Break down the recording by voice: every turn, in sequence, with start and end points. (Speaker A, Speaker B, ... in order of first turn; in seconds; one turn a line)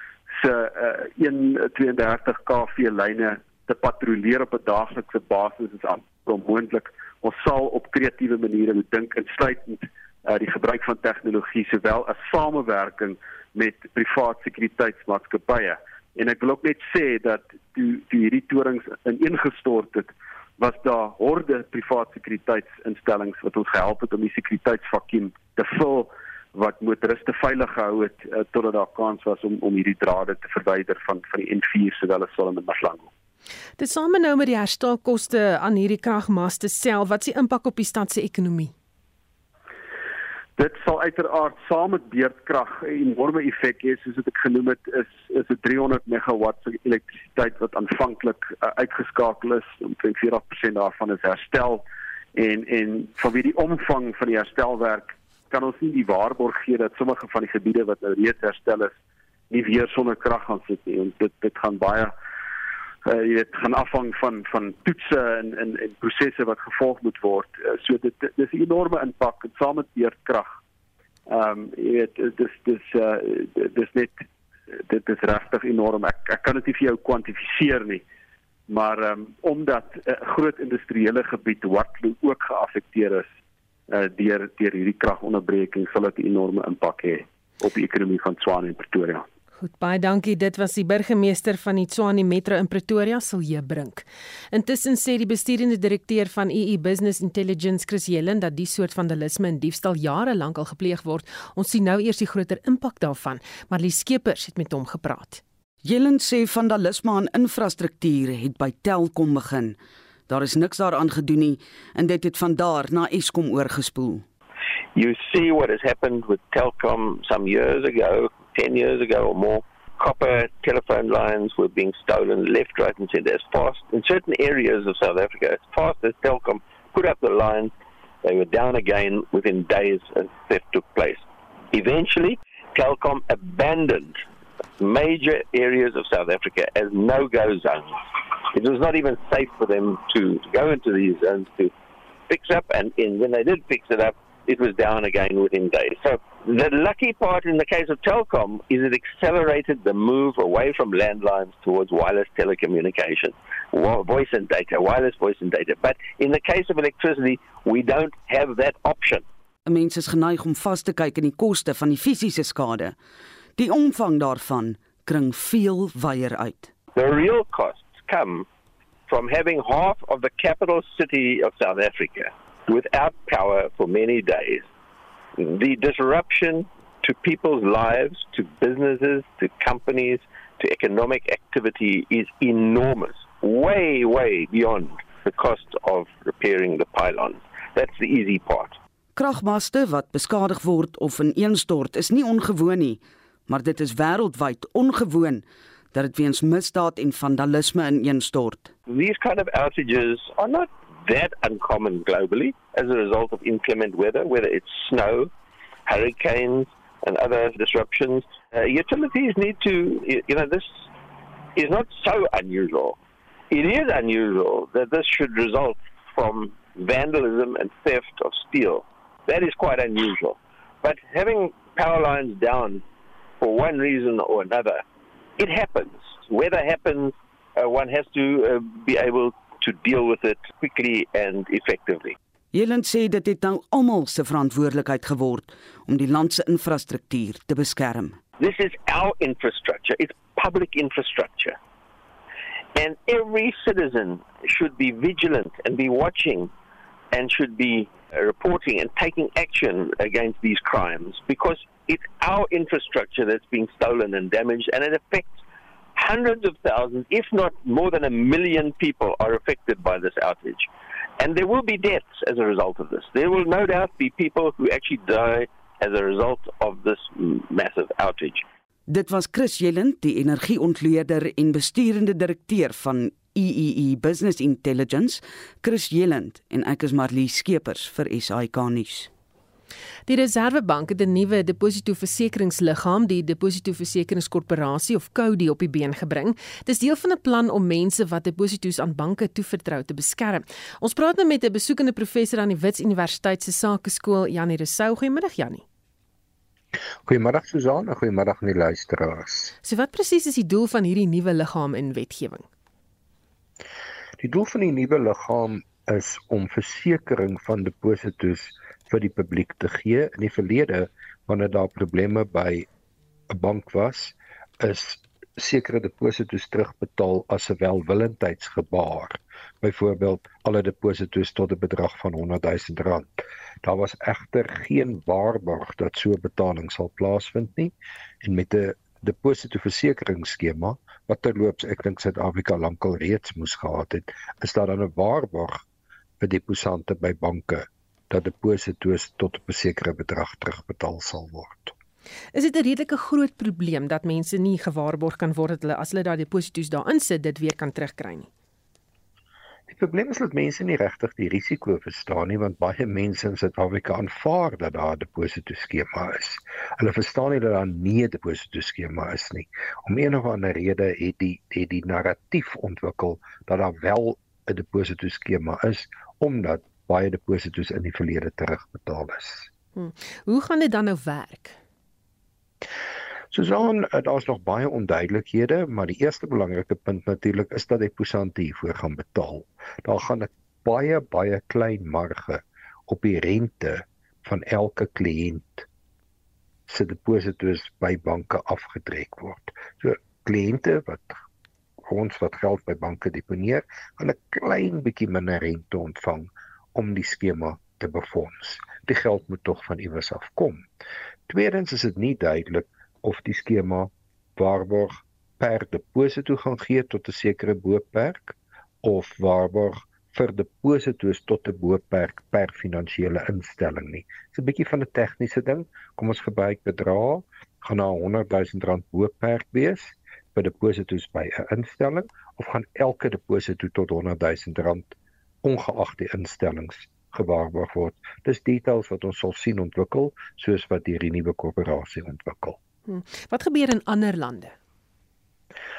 Speaker A: 0.3-33.1
Speaker B: 33.8-38.7
Speaker A: 40.6-58.9
Speaker A: 59.5-62.1
Speaker A: 63.0-70.5
Speaker A: 71.3-78.0
Speaker A: 78.7-83.3
Speaker A: 83.9-89.2
Speaker B: 89.6-105.4
Speaker C: 105.8-109.8
Speaker C: 110.3-114.2
Speaker D: 114.9-134.2
Speaker D: 134.8-141.7
Speaker D: 142.3-159.2
Speaker C: 159.7-163.0
Speaker C: 163.6-166.7
Speaker D: 166.9-168.5
Speaker D: 169.1-174.7
Speaker D: 175.4-188.8
Speaker C: 189.2-198.7
Speaker D: 198.9-205.3
Speaker D: 205.9-210.8
Speaker D: 211.6-213.0
Speaker D: 213.5-222.8
Speaker D: 223.4-224.8
Speaker D: 225.4-232.2
Speaker C: 232.5-238.2
Speaker D: 238.4-241.6
Speaker D: 242.8-246.5
Speaker D: 247.1-255.4
Speaker D: 255.9-268.5
Speaker C: 268.9-279.1
Speaker B: 280.1-295.6
Speaker E: 297.0-299.5
Speaker B: 299.6-302.5
Speaker E: 304.2-312.7
Speaker E: 313.3-335.6
Speaker E: 336.2-341.8
Speaker B: 342.3-348.3
Speaker E: 349.7-369.5
Speaker B: 369.8-371.6
Speaker E: 373.3-385.6
Speaker E: 386.7-391.2
Speaker E: 391.9-400.7
Speaker E: 401.3-432.6
Speaker B: 432.9-434.6